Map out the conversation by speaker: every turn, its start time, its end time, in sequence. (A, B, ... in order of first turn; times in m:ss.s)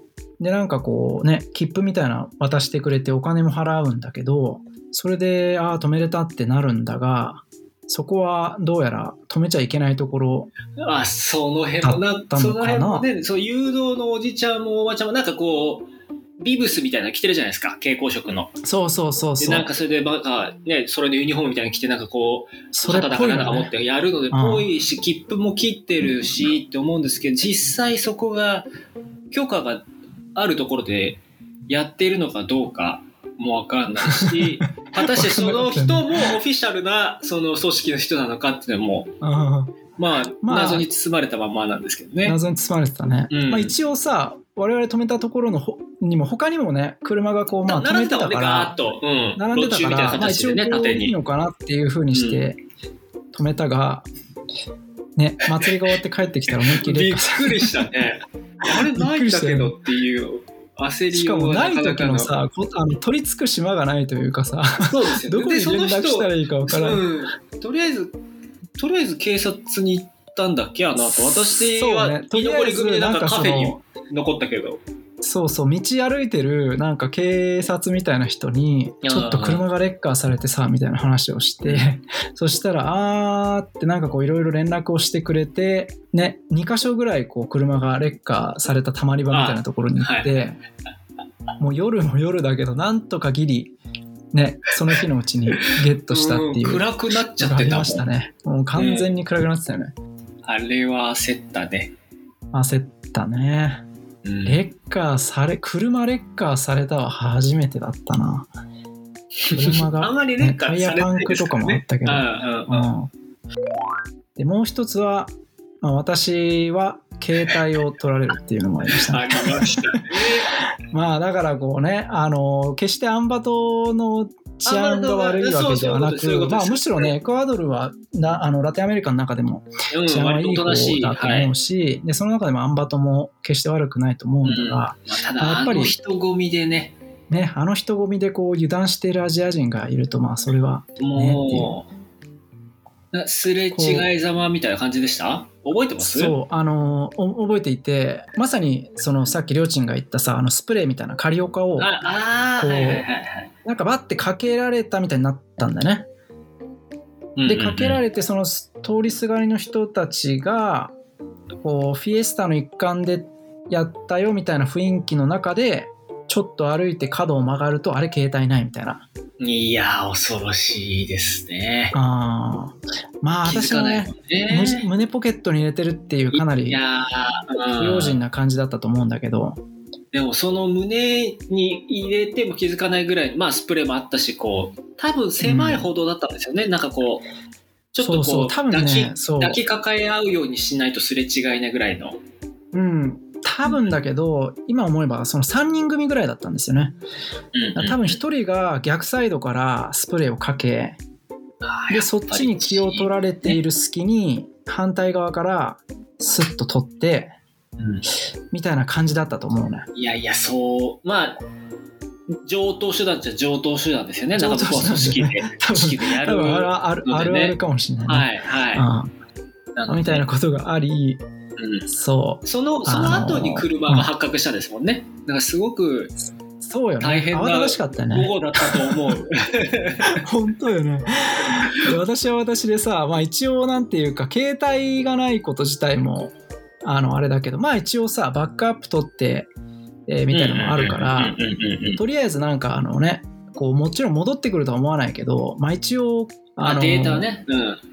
0:00.4-0:10.5 A
0:10.8-0:15.9 B
0:11.8-0:13.1 A
0:16.4-0:18.6 B
0:18.6-0:19.7 A
0:19.4-0:28.7 B
0:22.7-0:23.7 A
0:24.3-0:24.7 A
0:29.3-0:39.1 B
0:34.0-0:36.3 A
0:39.2-0:39.8 A
0:40.0-0:42.4 B
0:40.4-0:40.8 A
0:42.2-0:48.7 A
0:43.3-0:43.8 B
0:47.6-0:51.2 B
0:49.4-0:52.6 A
0:52.1-0:52.4 B
0:53.3-0:54.1 A
0:55.2-0:57.9 A
0:56.5-1:02.3 B
0:58.6-0:59.7 A
1:01.1-1:07.0 A
1:04.8-1:08.1 B
1:08.8-1:14.8 B
1:11.0-1:13.8 A
1:15.2-1:30.6 A
1:19.0-1:19.6 B
1:29.3-1:30.3 B
1:31.6-1:33.7 A
1:34.3-1:39.9 A
1:35.7-1:38.0 B
1:38.8-1:39.1 B
1:40.4-1:41.9 B
1:42.5-1:43.8 A
1:44.2-1:44.6 B
1:44.4-1:48.5 A
1:49.4-1:52.9 B
1:49.5-1:53.1 A
1:54.4-1:59.9 A
1:59.1-2:00.6 B
2:00.9-2:16.0 A
2:04.6-2:07.1 B
2:09.9-2:11.5 B
2:14.4-2:17.0 B
2:17.3-2:21.7 A
2:21.0-2:21.9 B
2:23.1-2:26.3 B
2:23.7-2:24.1 A
2:26.0-2:31.9 A
2:31.8-2:33.5 B
2:32.6-2:33.1 A
2:33.6-2:36.1 A
2:37.4-2:38.0 B
2:37.5-2:40.9 A
2:41.6-2:49.0 A
2:49.4-2:51.9 B
2:51.9-2:56.8 A
2:53.4-2:54.9 B
2:56.3-2:58.2 B
2:57.7-2:59.6 A
3:00.1-3:07.2 B
3:05.4-3:05.9 A
3:07.9-3:12.2 B
3:08.0-3:09.6 A
3:12.7-3:17.0 A
3:13.6-3:13.9 B
3:17.5-3:18.2 B
3:17.7-3:21.0 A
3:21.6-3:23.6 B
3:21.9-3:27.4 A
3:27.8-3:28.0 B
3:28.5-3:29.9 A
3:29.9-3:31.4 B
3:32.4-3:38.9 B
3:34.3-3:39.1 A
3:39.8-3:40.3 B
3:39.9-3:41.2 A
3:41.6-3:41.9 B
3:41.9-3:44.1 A
3:42.4-3:46.1 B
3:46.6-3:49.1 A
3:47.0-3:50.2 B
3:50.0-3:56.3 A
3:56.8-3:59.5 A
4:00.1-4:01.4 A
4:00.3-4:02.0 B
4:02.0-4:07.3 A
4:06.6-4:07.8 B